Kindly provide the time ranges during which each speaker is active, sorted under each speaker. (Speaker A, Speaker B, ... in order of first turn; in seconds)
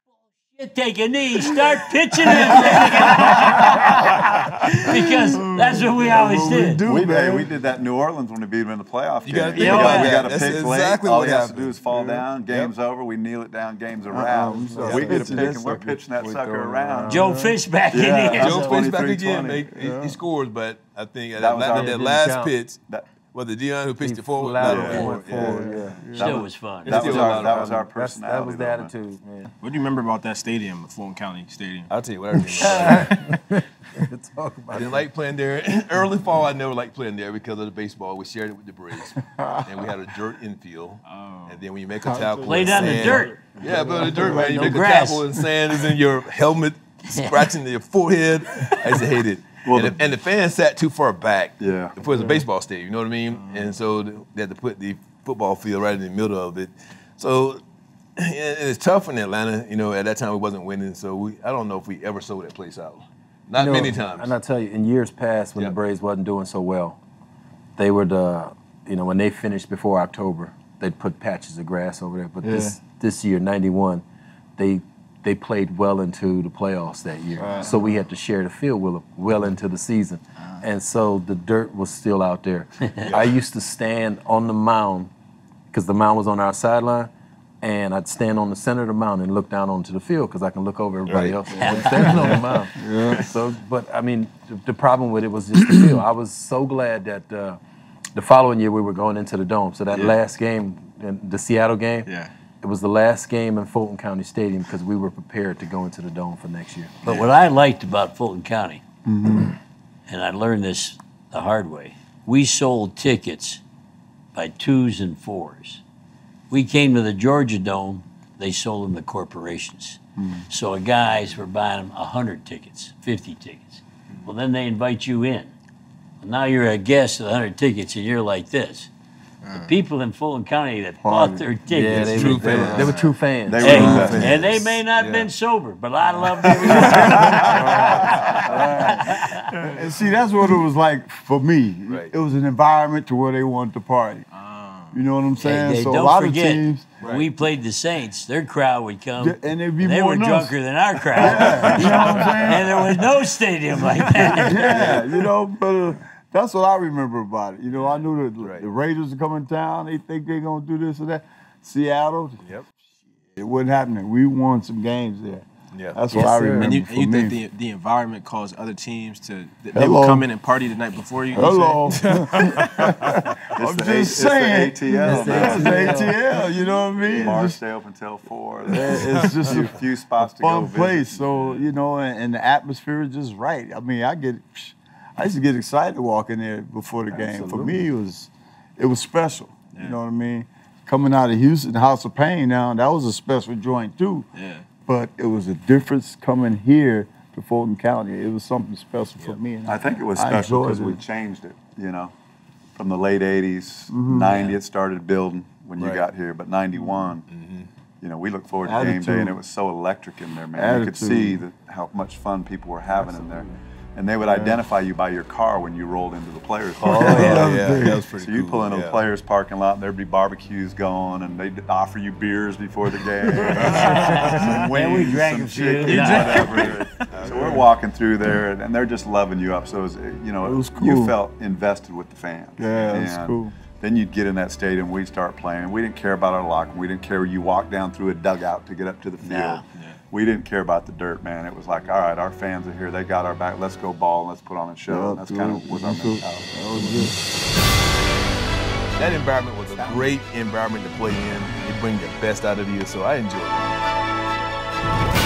Speaker A: 0.5-6.8, 9.5-10.2, 17.1-18.8, 26.1-27.2, 42.4-45.3, 47.1-47.5, 91.5-92.0, 107.0-108.8, 110.1-113.6, 114.3-115.8, 116.5-120.0, 120.5-125.5, 126.2-128.9, 129.5-132.4, 133.6-139.5, 145.4-154.8, 223.8-226.7, 239.2-239.6
Speaker B: 2.4-3.8, 4.8-7.5, 11.9-12.2, 14.1-15.6, 17.1-17.5, 19.8-20.2, 25.1-26.4, 42.0-44.8, 72.4-72.8, 77.4-78.0, 91.6-92.1, 92.8-93.2, 109.0-109.5, 131.0-131.5, 133.8-134.1, 136.7-144.2, 144.9-147.0, 149.2-153.0, 154.1-162.4, 163.3-167.4, 169.7-170.3, 171.3-177.6, 178.7-194.2, 194.8-201.0, 203.9-204.3, 208.6-209.3, 210.6-211.4, 214.3-214.6, 216.8-218.0, 223.6-224.0, 230.4-231.1, 232.6-233.5, 244.9-247.1
Speaker C: 6.8-17.4, 17.9-19.8, 21.3-22.2, 24.6-25.2, 26.8-28.9, 49.6-50.0, 51.6-51.9, 133.5-134.6, 173.5-181.3, 199.6-202.1, 202.8-207.3, 208.0-247.1
Speaker D: 9.2-11.8, 12.5-12.7, 18.3-22.8, 23.3-25.8, 26.8-27.8, 31.9-33.3, 34.7-57.6, 58.2-64.3, 83.0-83.3, 91.1-91.7, 131.9-133.0, 134.0-134.3, 134.9-135.3, 137.0-137.4, 141.9-142.1, 147.0-147.3, 151.6-152.3, 154.7-155.0, 157.7-158.7, 165.7-166.0, 205.8-206.1, 207.3-207.7, 216.9-219.0, 226.0-227.6, 249.0-253.8
Speaker E: 14.7-17.4, 21.6-22.5, 24.0-29.5, 32.6-35.0, 63.6-67.0, 67.8-74.0, 74.6-85.1, 85.7-87.1, 87.6-97.6, 98.1-107.0, 131.7-134.3, 166.1-166.7, 175.0-176.2, 187.1-187.8, 213.1-213.4
Speaker F: 29.6-31.9, 41.0-41.6, 53.3-53.8, 99.9-100.2, 102.0-102.3, 129.4-129.8, 132.6-133.1, 144.3-145.0, 166.5-172.9, 194.3-194.7